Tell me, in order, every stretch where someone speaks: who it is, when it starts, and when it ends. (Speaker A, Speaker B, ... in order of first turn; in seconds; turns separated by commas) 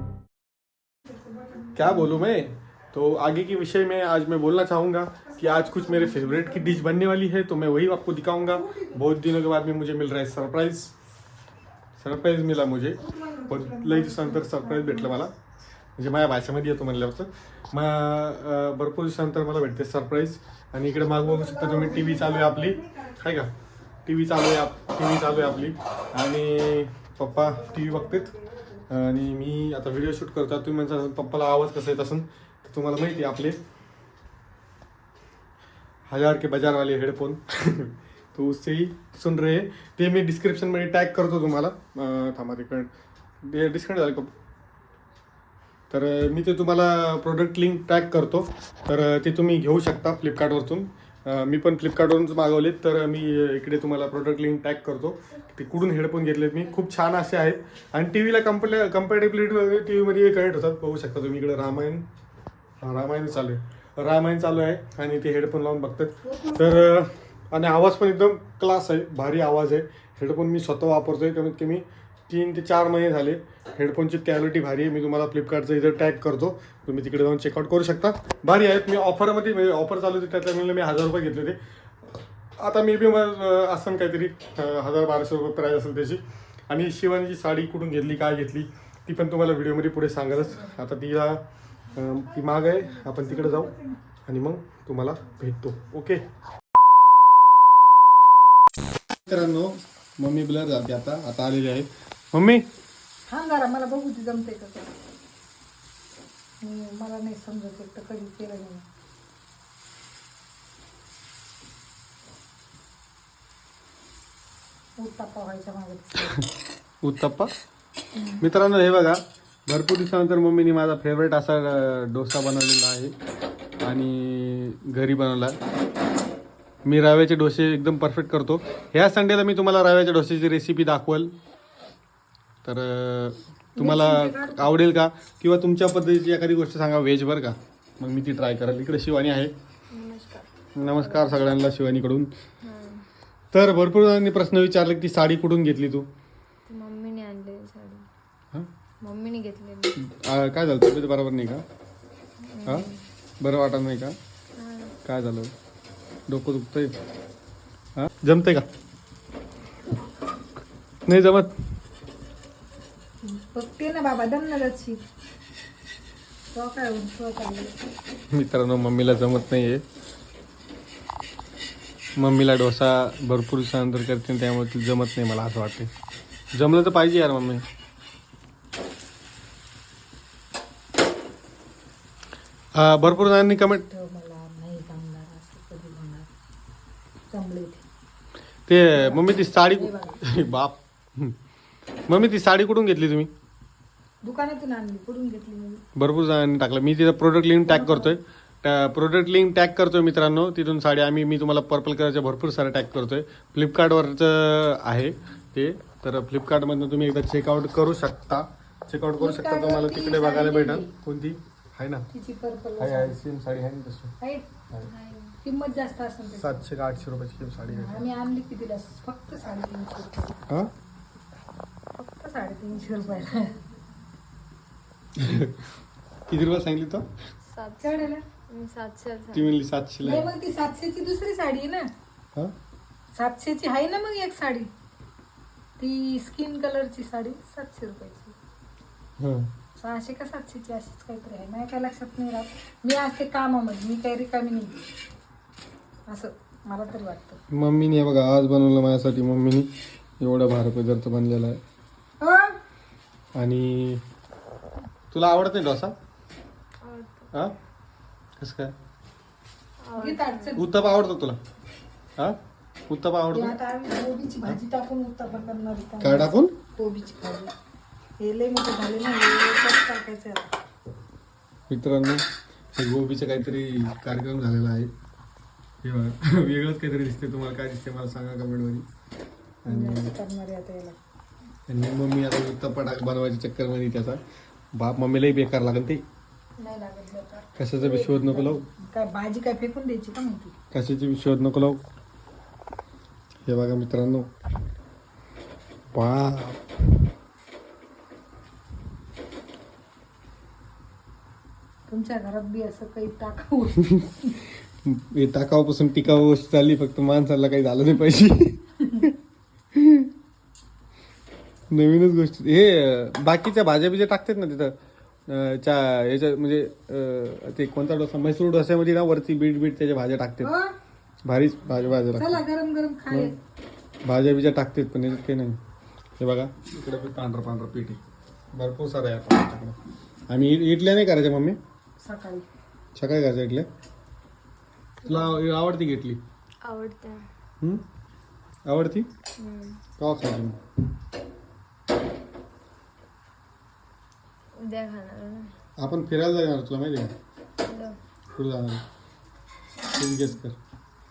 Speaker A: 1.1-2.1, Speaker B: 1.7-10.9, Speaker A: 5.2-6.8, Speaker A: 8.5-9.0, Speaker B: 12.0-15.3, Speaker A: 13.0-15.2, Speaker B: 16.0-23.5, Speaker A: 21.2-23.2, Speaker B: 24.1-28.3, Speaker A: 27.6-28.4, Speaker B: 28.9-33.6, Speaker B: 36.1-42.9, Speaker B: 43.4-44.3, Speaker B: 45.9-62.0, Speaker B: 62.8-81.6, Speaker A: 66.2-66.7, Speaker B: 82.6-91.4, Speaker B: 91.9-93.7, Speaker A: 93.2-93.9, Speaker B: 94.2-96.2, Speaker B: 99.2-102.7, Speaker A: 103.3-104.9, Speaker A: 106.6-108.8, Speaker A: 115.0-116.3, Speaker B: 117.0-117.5, Speaker A: 118.2-118.4, Speaker B: 118.4-123.1, Speaker B: 123.8-125.6, Speaker B: 126.8-131.3, Speaker B: 132.6-139.5, Speaker A: 133.8-134.8, Speaker C: 139.9-141.4, Speaker B: 140.8-142.3, Speaker C: 142.6-143.0, Speaker B: 143.5-146.1, Speaker C: 146.7-148.0, Speaker C: 149.0-149.9, Speaker B: 150.0-151.6, Speaker C: 152.4-153.0, Speaker B: 153.4-154.2, Speaker C: 154.6-154.9, Speaker B: 155.0-155.5, Speaker B: 156.3-156.9, Speaker B: 157.9-158.7, Speaker B: 161.1-161.5, Speaker A: 163.2-165.0, Speaker A: 166.5-167.7, Speaker B: 168.3-169.8, Speaker B: 172.2-175.9, Speaker B: 176.5-177.6, Speaker B: 182.8-183.8, Speaker A: 183.1-186.3, Speaker A: 187.3-187.8, Speaker B: 188.7-191.3, Speaker A: 188.9-190.2, Speaker B: 192.1-193.3, Speaker A: 194.2-195.8, Speaker B: 196.0-212.1, Speaker A: 197.6-198.2, Speaker A: 209.2-210.9, Speaker A: 212.1-213.2, Speaker B: 212.8-214.1, Speaker A: 214.2-214.4, Speaker C: 214.9-215.3, Speaker A: 215.4-216.6, Speaker B: 216.4-218.0, Speaker A: 217.7-220.4, Speaker A: 222.0-223.5, Speaker B: 225.2-225.5, Speaker B: 226.3-227.0, Speaker C: 227.4-229.6, Speaker A: 227.8-228.2, Speaker B: 229.3-230.3, Speaker A: 230.0-231.9, Speaker A: 233.1-234.7, Speaker A: 235.8-238.3, Speaker B: 239.2-239.5, Speaker A: 239.8-244.8, Speaker A: 246.1-247.4, Speaker B: 247.5-251.6, Speaker A: 252.2-252.6, Speaker B: 253.3-254.0, Speaker B: 255.1-255.9, Speaker C: 256.8-257.3, Speaker B: 258.4-258.7, Speaker C: 259.8-260.6, Speaker A: 260.0-260.6, Speaker B: 260.6-261.4, Speaker B: 262.9-263.5, Speaker A: 263.3-267.5, Speaker B: 266.0-266.5, Speaker A: 268.2-270.5, Speaker B: 271.7-272.2, Speaker B: 272.7-274.9, Speaker B: 275.8-278.8, Speaker B: 279.6-280.1, Speaker A: 279.7-281.0, Speaker B: 281.7-284.2, Speaker B: 284.7-286.0, Speaker A: 286.6-290.5, Speaker B: 287.6-288.6, Speaker B: 290.7-291.8, Speaker B: 293.4-294.3, Speaker B: 295.9-296.6, Speaker A: 301.9-304.1, Speaker B: 304.9-309.1, Speaker B: 309.8-310.1, Speaker B: 311.7-314.7, Speaker B: 315.3-320.5, Speaker A: 320.4-320.7, Speaker B: 321.2-322.4, Speaker A: 322.1-323.3, Speaker B: 324.0-325.6, Speaker B: 326.2-328.0, Speaker B: 328.5-329.8, Speaker B: 330.3-331.6, Speaker A: 332.0-332.4, Speaker B: 332.9-333.7, Speaker B: 335.1-336.2, Speaker C: 336.6-337.2, Speaker B: 338.6-339.1, Speaker C: 339.4-339.8, Speaker B: 340.0-340.6, Speaker C: 344.6-345.5, Speaker B: 345.8-347.1, Speaker C: 347.6-347.9, Speaker B: 348.3-348.8, Speaker B: 349.9-350.6